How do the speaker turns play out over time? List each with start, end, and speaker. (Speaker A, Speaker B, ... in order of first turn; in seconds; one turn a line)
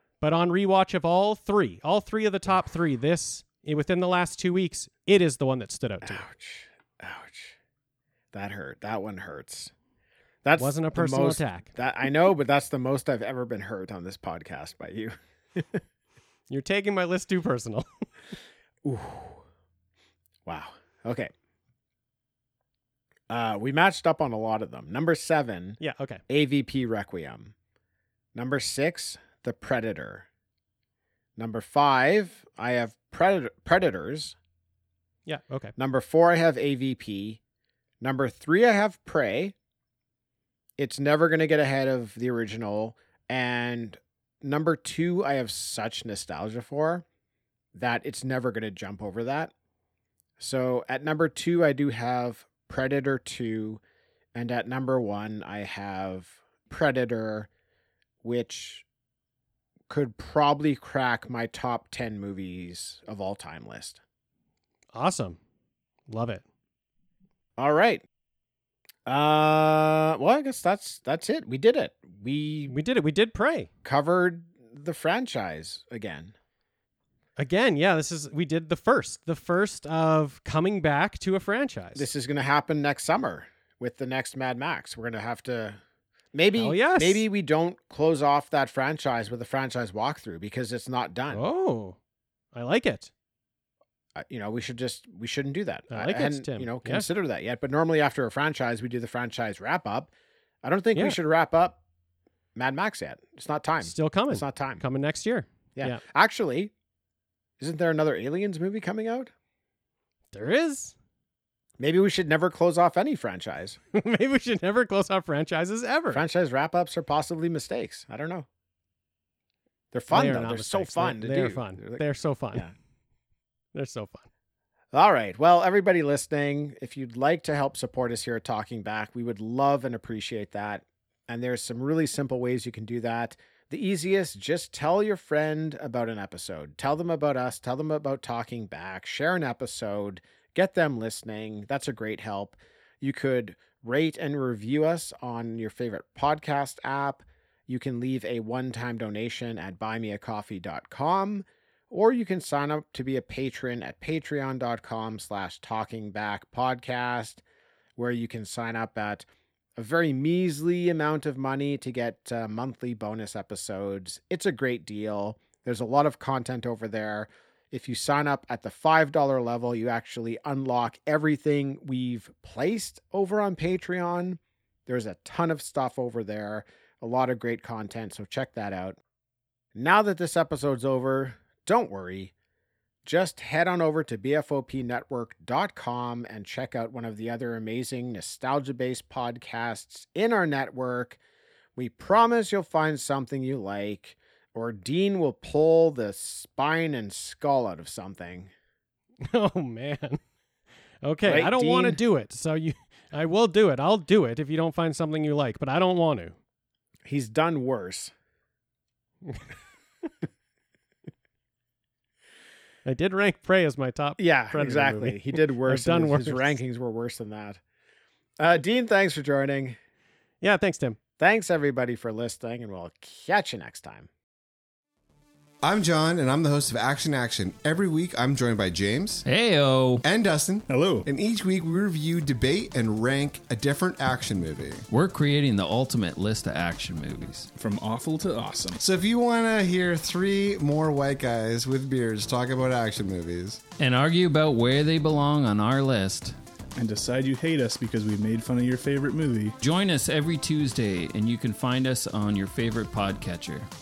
Speaker A: 0.2-6.2
Speaker B: 6.0-7.5
Speaker B: 8.3-9.7
Speaker B: 10.4-15.8
Speaker A: 10.6-11.7
Speaker A: 16.5-18.0
Speaker B: 18.8-19.4
Speaker B: 20.4-21.3
Speaker B: 23.3-27.5
Speaker A: 25.8-26.2
Speaker B: 28.3-30.3
Speaker B: 31.4-34.4
Speaker A: 35.2-35.7
Speaker B: 35.8-37.4
Speaker B: 38.0-39.5
Speaker B: 40.8-47.0
Speaker B: 47.7-49.5
Speaker B: 50.4-53.8
Speaker B: 54.3-57.5
Speaker B: 58.2-58.8
Speaker B: 59.9-64.0
Speaker A: 64.9-65.4
Speaker A: 66.1-66.4
Speaker B: 67.6-68.0
Speaker B: 69.0-72.8
Speaker A: 72.7-73.7
Speaker B: 73.8-76.3
Speaker A: 77.4-82.0
Speaker B: 81.9-85.8
Speaker B: 86.3-91.4
Speaker A: 86.6-87.2
Speaker A: 91.3-92.0
Speaker A: 92.5-93.1
Speaker B: 94.1-100.1
Speaker A: 95.9-97.0
Speaker B: 100.6-101.8
Speaker B: 102.5-104.8
Speaker A: 103.8-106.0
Speaker B: 105.7-106.7
Speaker B: 107.6-109.3
Speaker A: 110.3-110.9
Speaker B: 111.8-113.8
Speaker A: 113.9-116.2
Speaker B: 116.1-118.5
Speaker B: 119.9-122.7
Speaker A: 120.1-122.7
Speaker A: 123.7-124.3
Speaker B: 124.9-157.4
Speaker B: 157.9-179.0
Speaker B: 179.7-182.3
Speaker B: 183.0-191.2
Speaker B: 191.8-198.5
Speaker A: 199.2-200.2
Speaker A: 201.0-206.3
Speaker B: 201.2-202.0
Speaker B: 207.0-208.1
Speaker A: 212.8-216.6
Speaker B: 214.2-217.6
Speaker B: 218.4-219.8
Speaker A: 220.4-221.0
Speaker B: 221.2-224.1
Speaker C: 225.6-229.2
Speaker D: 229.2-230.0
Speaker C: 230.0-234.8
Speaker E: 230.7-231.1
Speaker D: 234.9-237.5
Speaker E: 237.5-238.8
Speaker C: 238.8-243.6
Speaker D: 243.8-246.3
Speaker E: 246.8-249.6
Speaker D: 249.6-253.7